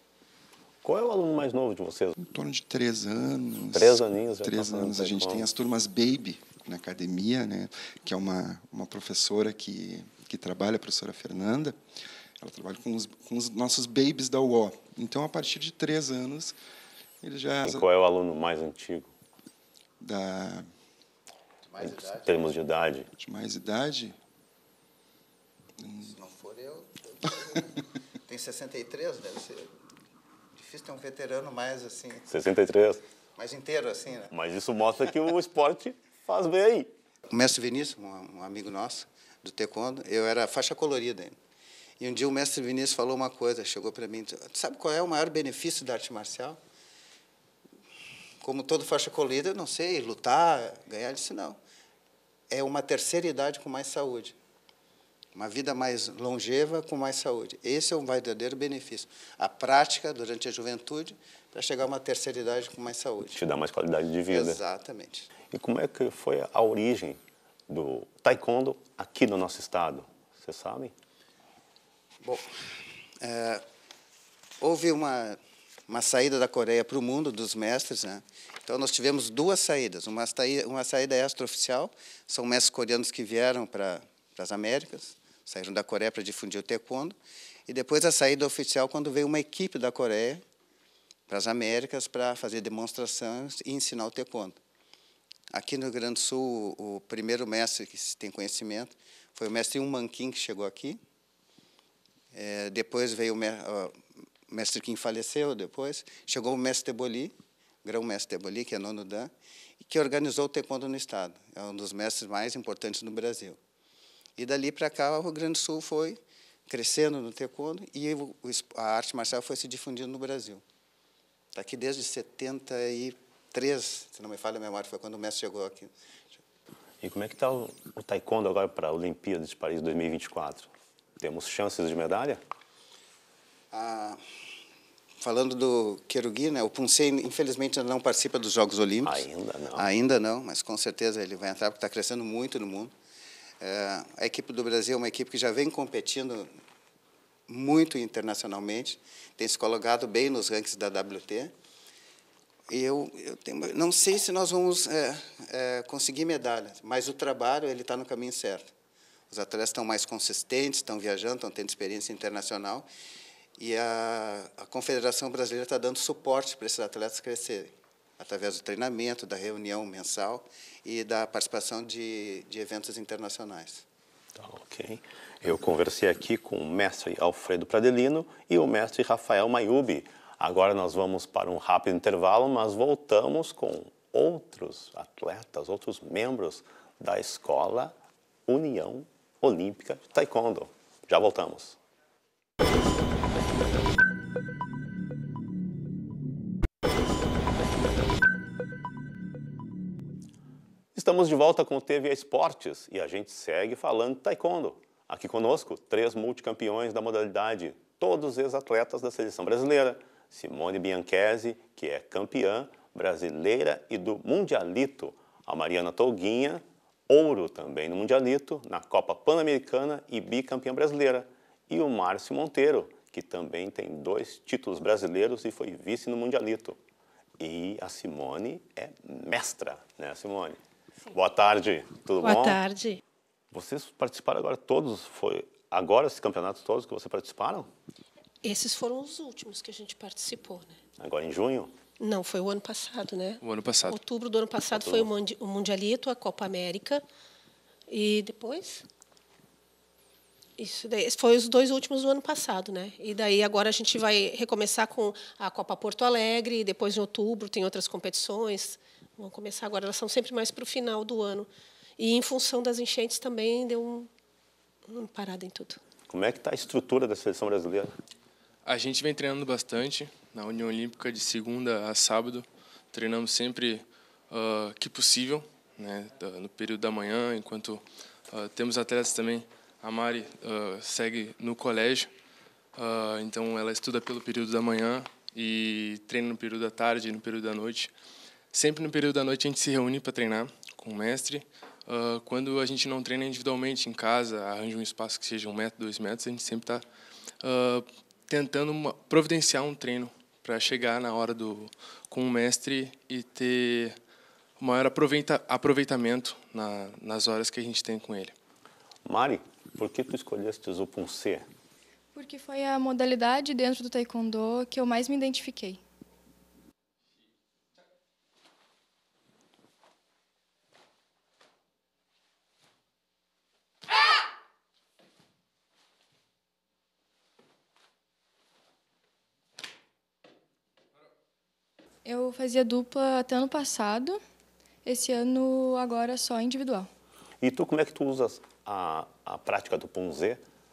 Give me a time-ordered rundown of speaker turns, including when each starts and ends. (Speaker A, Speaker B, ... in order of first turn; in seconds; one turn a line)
Speaker A: 0.8-2.2
Speaker B: 2.2-11.8
Speaker A: 3.7-5.5
Speaker B: 12.4-16.6
Speaker B: 17.2-17.9
Speaker A: 17.6-19.1
Speaker B: 20.0-20.7
Speaker C: 21.7-22.5
Speaker A: 21.8-23.1
Speaker B: 23.2-24.2
Speaker B: 25.8-26.1
Speaker C: 26.0-29.7
Speaker C: 30.6-32.3
Speaker A: 32.3-33.0
Speaker C: 33.4-34.3
Speaker A: 34.3-36.9
Speaker C: 37.3-41.4
Speaker C: 42.0-46.6
Speaker C: 48.4-51.6
Speaker C: 52.5-54.4
Speaker C: 55.4-63.4
Speaker A: 63.3-64.6
Speaker C: 64.3-65.3
Speaker A: 65.5-70.9
Speaker C: 72.2-72.5
Speaker C: 73.2-73.6
Speaker C: 74.6-87.2
Speaker C: 87.7-90.4
Speaker C: 91.3-94.6
Speaker C: 95.5-101.0
Speaker C: 102.3-113.6
Speaker C: 114.4-120.6
Speaker C: 121.5-125.9
Speaker A: 127.0-132.4
Speaker C: 133.7-134.2
Speaker C: 135.2-139.2
Speaker A: 139.0-139.9
Speaker C: 139.8-142.9
Speaker C: 143.6-146.5
Speaker C: 147.5-151.5
Speaker C: 152.7-158.7
Speaker C: 159.3-162.9
Speaker C: 163.6-173.8
Speaker A: 174.4-187.9
Speaker A: 188.5-191.8
Speaker A: 200.9-226.8
Speaker A: 227.4-230.6
Speaker A: 231.1-232.6
Speaker D: 232.2-233.0
Speaker A: 233.5-237.7
Speaker D: 238.4-240.8
Speaker A: 241.0-241.8
Speaker D: 242.0-247.0
Speaker E: 243.4-244.0
Speaker A: 244.7-245.1
Speaker D: 247.9-248.8
Speaker D: 250.6-264.1
Speaker D: 264.9-265.8
Speaker A: 266.1-267.9
Speaker E: 268.6-282.1
Speaker E: 282.8-287.9
Speaker E: 288.5-296.8
Speaker E: 297.4-303.9
Speaker E: 304.6-308.3
Speaker A: 309.1-311.5
Speaker F: 312.1-315.8
Speaker F: 332.1-334.2
Speaker F: 334.8-336.9
Speaker A: 337.4-340.4